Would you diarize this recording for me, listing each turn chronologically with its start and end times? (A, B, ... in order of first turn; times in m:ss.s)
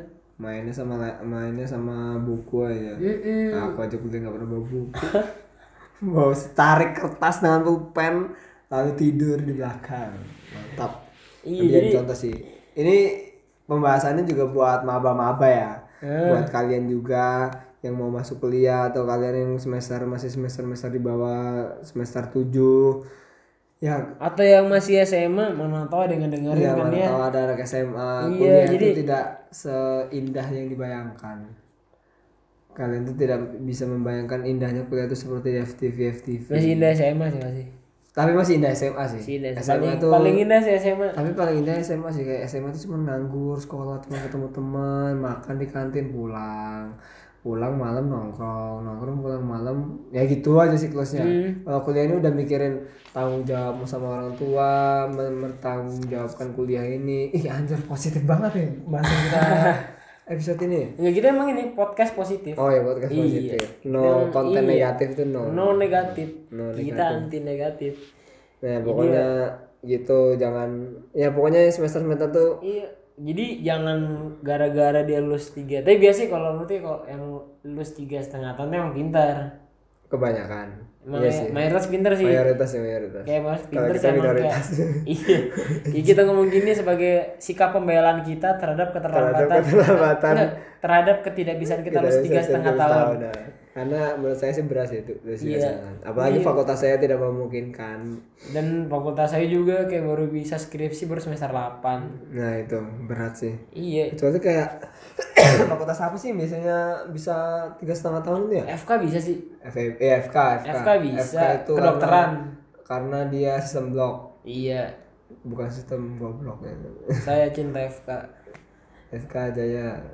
0:00.4-0:05.1 A
0:03.0-0:03.8 B
0:06.0-0:11.0 A
0:11.5-0:12.0 B
0:11.6-0:23.0 A
0:16.0-0:16.5 B
0:23.8-0:24.1 A
0:24.2-0:27.2 B
0:26.5-0:31.5 A
0:28.2-0:29.0 B
0:32.8-0:36.9 A
0:36.5-0:37.7 B
0:38.2-0:40.4 A
0:39.2-0:41.2 B
0:41.2-0:46.9 A
0:47.4-0:59.8 A
0:51.1-0:51.6 B
0:59.1-0:59.8 B
1:00.3-1:00.9 A
1:01.0-1:04.9 B
1:02.6-1:07.3 A
1:05.4-1:08.0 B
1:08.6-1:12.6 A
1:08.8-1:09.3 B
1:12.6-1:19.5 B
1:20.1-1:21.6 A
1:21.1-1:22.4 B
1:22.2-1:26.3 A
1:23.2-1:33.2 B
1:29.1-1:30.5 A
1:31.8-1:38.2 A
1:35.4-1:36.5 B
1:38.5-1:42.2 B
1:42.0-1:43.6 A
1:43.7-1:44.2 B
1:44.1-1:48.7 A
1:48.7-1:49.4 B
1:49.6-1:52.3 A
1:50.6-1:52.5 B
1:52.9-1:54.3 A
1:54.4-1:54.9 B
1:55.4-1:57.2 A
1:57.2-1:58.3 B
1:59.1-2:00.0 A